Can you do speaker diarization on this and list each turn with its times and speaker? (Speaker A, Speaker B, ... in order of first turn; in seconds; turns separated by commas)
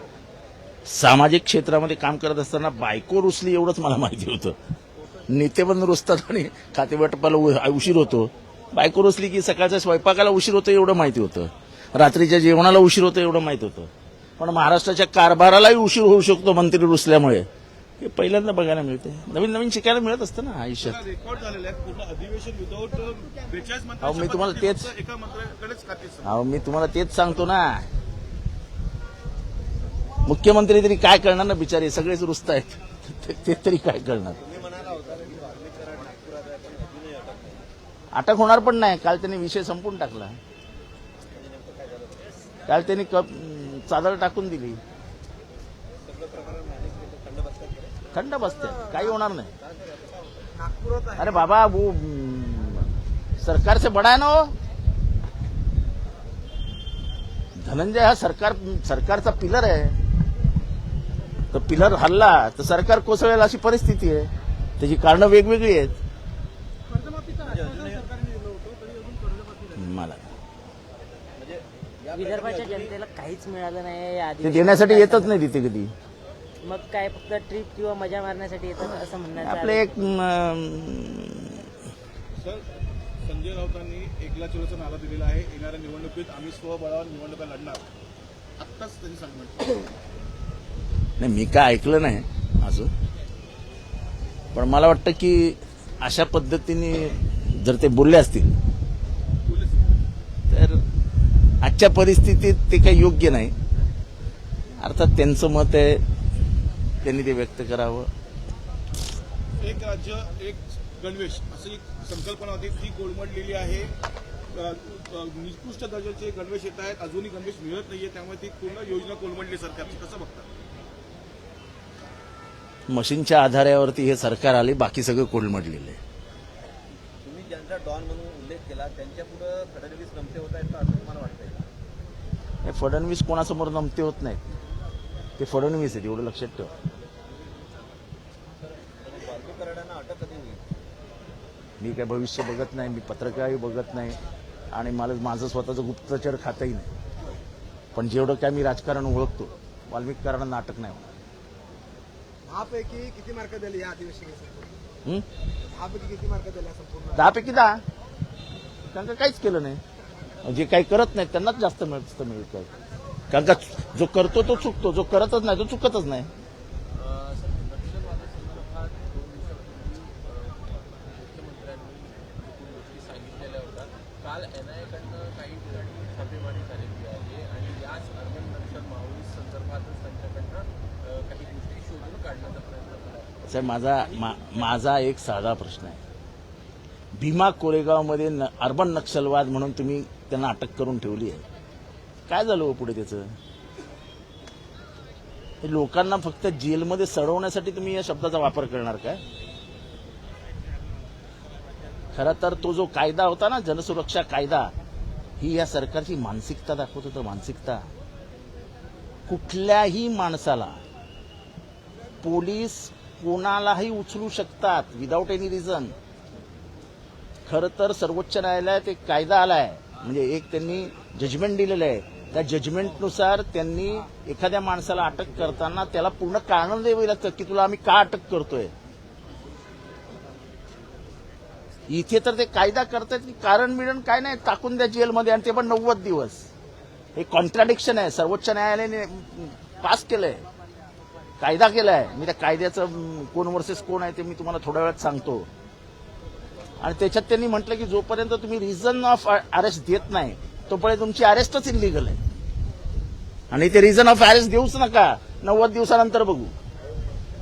Speaker A: 0.9-4.6, Speaker A: 5.3-17.5, Speaker A: 18.0-21.0, Speaker B: 20.8-26.3, Speaker A: 24.0-24.9, Speaker A: 26.2-27.9, Speaker A: 30.2-34.4, Speaker C: 34.4-37.7, Speaker A: 38.1-40.3, Speaker C: 41.3-42.4, Speaker A: 42.7-44.8, Speaker C: 46.0-48.1, Speaker A: 48.1-49.5, Speaker D: 48.5-49.1, Speaker C: 49.4-50.5, Speaker D: 50.5-51.5, Speaker A: 51.2-52.9, Speaker A: 53.4-54.5, Speaker A: 57.6-60.0, Speaker A: 61.5-66.0, Speaker B: 66.9-69.7, Speaker C: 67.4-68.1, Speaker A: 69.8-70.2, Speaker C: 71.4-73.0, Speaker E: 72.1-75.4, Speaker A: 74.4-75.9, Speaker E: 76.6-80.1, Speaker A: 79.4-81.7, Speaker B: 82.4-82.7, Speaker B: 83.2-87.9, Speaker B: 88.6-89.8, Speaker A: 91.2-92.9, Speaker A: 94.5-98.6, Speaker B: 99.5-99.8, Speaker A: 100.5-100.8, Speaker A: 101.6-103.5, Speaker A: 104.8-106.0, Speaker A: 107.0-108.1, Speaker B: 109.6-113.9, Speaker B: 114.5-120.5, Speaker A: 122.9-126.0, Speaker C: 127.2-131.7, Speaker A: 132.7-134.4, Speaker A: 135.4-136.7, Speaker C: 139.0-140.6, Speaker A: 141.8-144.2, Speaker A: 144.7-146.9, Speaker A: 147.9-151.1, Speaker D: 152.5-154.7, Speaker D: 155.7-157.3, Speaker A: 157.1-157.8, Speaker A: 158.9-159.8, Speaker A: 160.4-162.7, Speaker A: 163.3-166.3, Speaker F: 166.9-184.3, Speaker A: 183.5-186.0, Speaker A: 187.2-191.4, Speaker A: 192.3-193.3, Speaker A: 195.6-199.2, Speaker A: 202.1-204.7, Speaker A: 205.4-207.9, Speaker A: 209.3-210.8, Speaker A: 212.2-215.9, Speaker A: 217.5-228.7, Speaker A: 231.9-236.5, Speaker A: 237.2-240.4, Speaker A: 241.4-245.5, Speaker A: 246.8-252.2, Speaker A: 253.5-256.5